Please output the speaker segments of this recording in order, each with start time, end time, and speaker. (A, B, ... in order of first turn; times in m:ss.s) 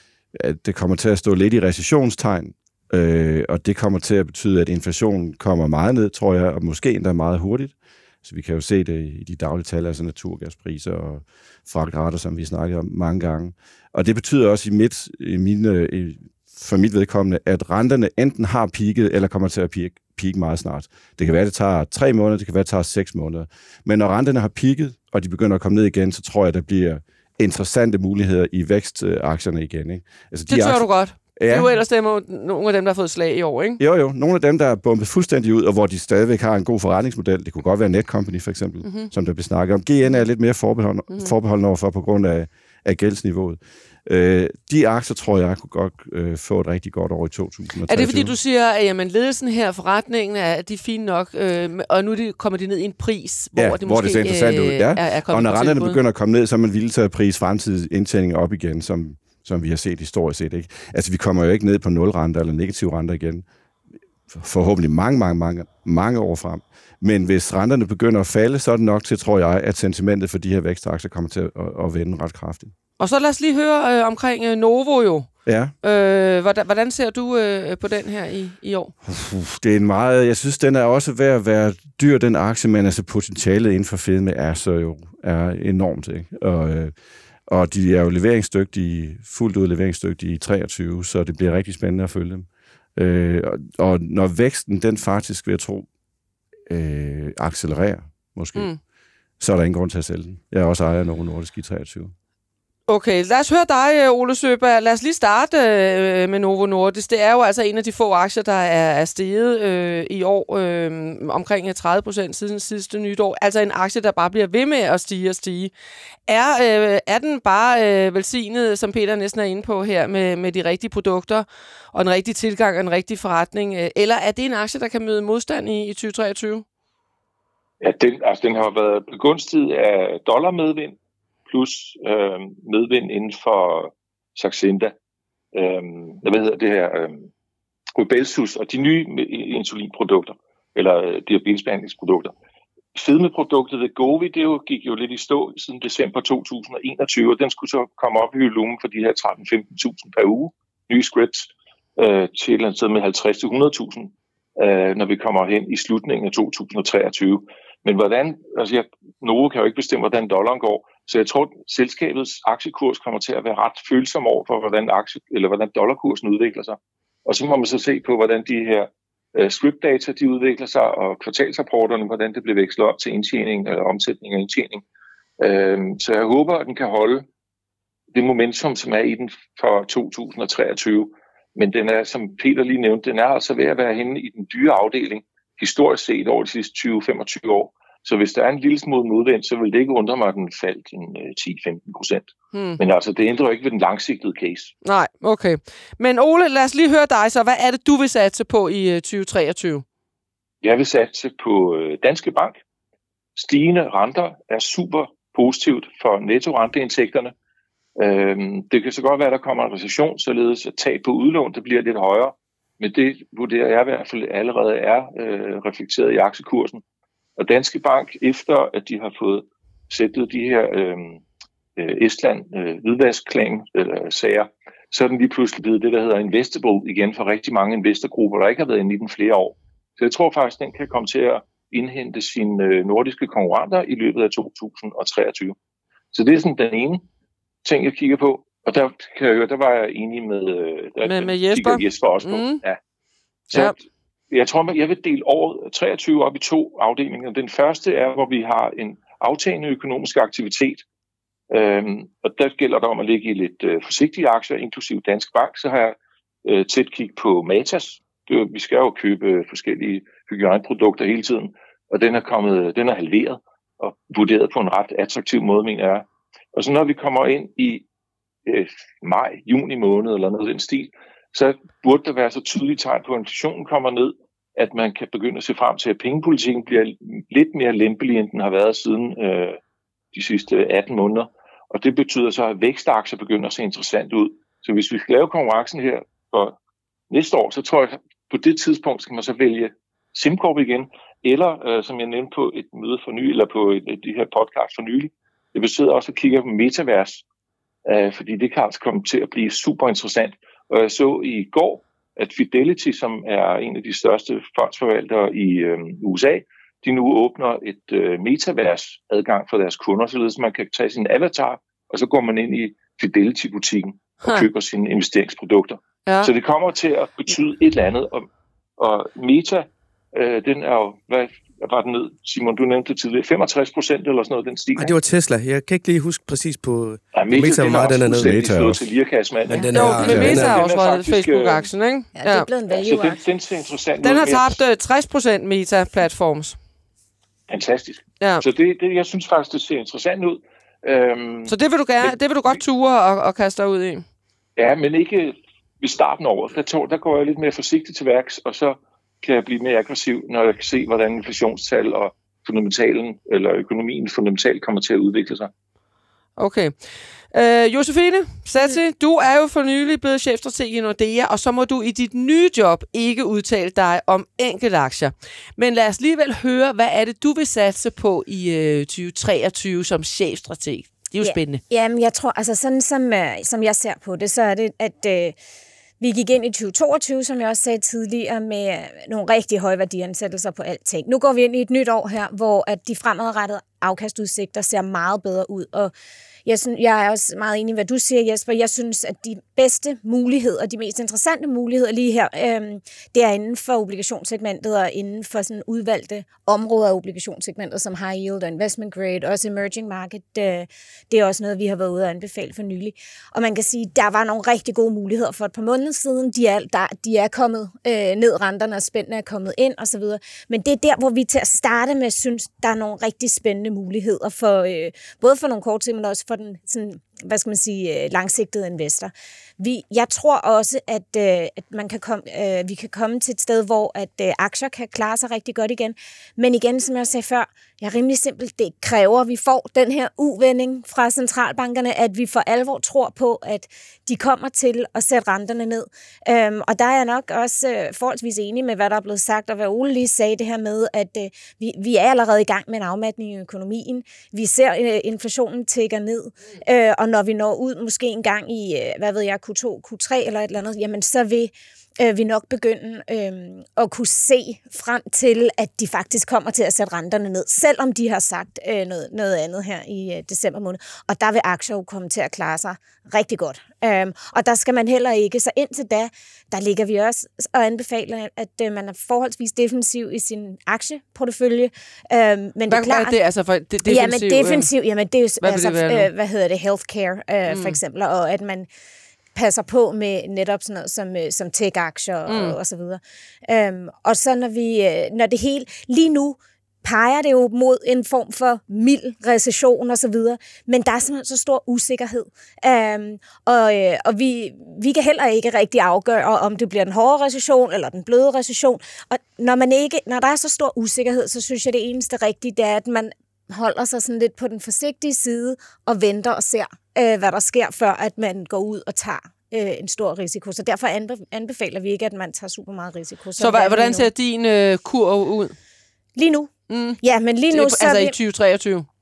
0:00.3-0:31.7 A
0:30.5-0:33.8 B
0:33.8-0:48.4 A
0:38.8-0:39.1 B
0:47.9-0:56.0 B
0:53.5-1:03.4 A
1:04.3-1:12.7 A
1:13.0-1:15.3 B
1:15.4-1:15.7 A
1:15.8-1:18.9 B
1:19.0-1:26.9 A
1:27.5-1:35.9 A
1:36.7-1:38.7 A
1:39.4-1:42.1 A
1:42.9-1:55.7 B
1:56.3-2:06.6 B
2:07.8-2:11.0 C
2:11.5-2:14.9 C
2:15.5-2:17.3 C
2:18.0-2:22.3 C
2:22.9-2:54.8 C
2:55.4-2:57.2 C
2:58.1-3:14.7 C
3:12.5-3:12.8 B
3:14.8-3:19.8 B
3:20.6-3:22.6 C
3:23.4-3:27.3 C
3:28.0-3:36.8 C
3:37.4-3:41.2 C
3:41.8-3:55.6 C
3:56.1-3:57.0 C
3:57.6-4:02.8 C
4:01.0-4:02.6 B
4:03.5-4:10.8 C
4:11.5-4:27.8 C
4:28.4-4:39.6 C
4:40.1-4:46.6 C
4:47.1-4:57.2 C
4:57.8-5:18.3 C
5:16.0-5:16.3 B
5:18.8-5:24.9 C
5:24.8-5:28.4 D
5:27.1-5:31.7 C
5:28.2-5:28.8 A
5:29.5-5:30.6 D
5:29.7-5:32.5 B
5:32.1-5:33.2 E
5:32.7-5:34.6 C
5:34.0-5:36.6 B
5:37.5-5:42.6 C
5:38.2-5:38.4 B
5:41.4-5:44.0 B
5:44.6-5:55.5 C
5:56.4-5:56.7 B
5:57.3-6:11.6 B
6:11.2-6:15.3 E
6:16.0-6:25.9 E
6:26.4-7:53.2 E
7:52.7-7:54.7 B
7:53.8-7:58.7 E
7:55.4-7:56.1 B
7:57.5-7:57.8 B
7:59.3-8:34.1 E
8:02.3-8:02.6 B
8:33.4-8:35.5 B
8:36.2-8:38.1 E
8:36.7-8:38.8 B